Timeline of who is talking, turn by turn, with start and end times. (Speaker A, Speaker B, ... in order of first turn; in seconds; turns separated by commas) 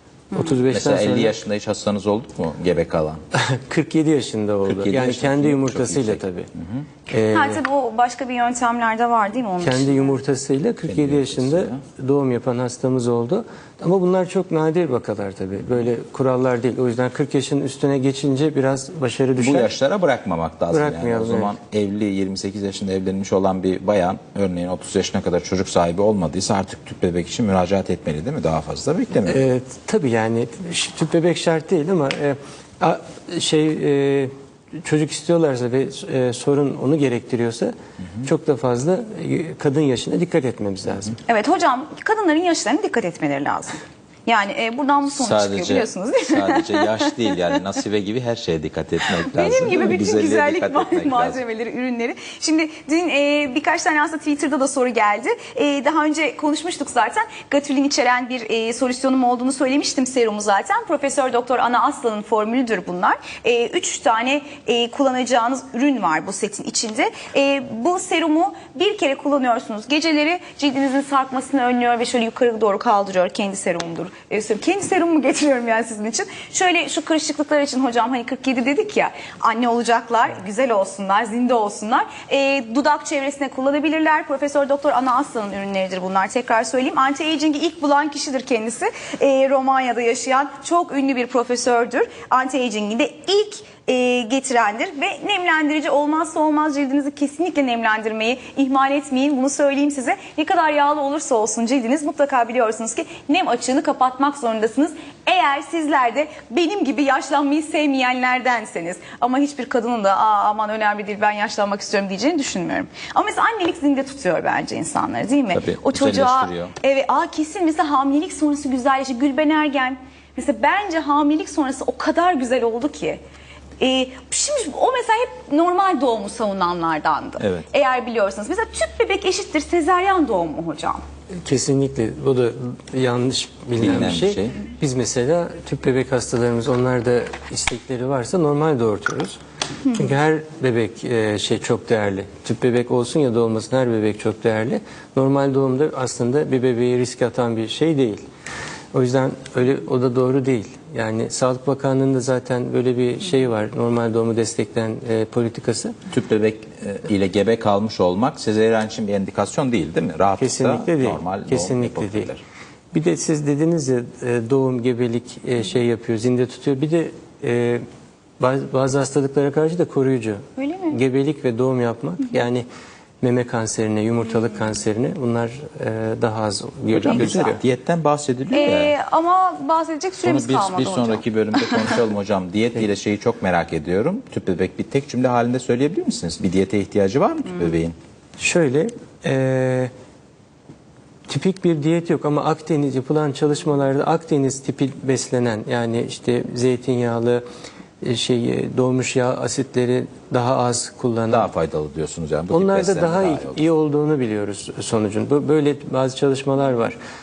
Speaker A: 0.3-0.6, Speaker B: 0.3-1.3, Speaker C: 0.7-3.2, Speaker B: 3.3-6.5, Speaker C: 4.7-6.8, Speaker B: 7.1-7.6, Speaker A: 7.3-10.1, Speaker B: 9.6-19.7, Speaker C: 10.9-11.8, Speaker C: 19.4-29.4, Speaker B: 20.7-21.5, Speaker B: 29.2-34.3, Speaker B: 34.8-41.2, Speaker A: 41.3-47.4, Speaker C: 45.1-51.4, Speaker A: 49.2-123.2, Speaker C: 115.5-116.7, Speaker A: 123.8-131.0, Speaker C: 127.4-127.7, Speaker B: 131.4-139.4, Speaker C: 133.8-134.6, Speaker B: 139.9-148.3, Speaker B: 148.9-156.0, Speaker C: 156.1-162.4, Speaker B: 160.4-162.3, Speaker B: 162.9-167.8, Speaker B: 168.4-172.7, Speaker A: 170.6-171.0, Speaker B: 173.2-177.6, Speaker C: 176.9-178.9, Speaker A: 178.5-182.0, Speaker C: 180.2-187.9, Speaker B: 188.4-189.9, Speaker B: 191.3-197.4, Speaker B: 198.0-201.5, Speaker C: 201.3-203.6, Speaker B: 202.5-207.0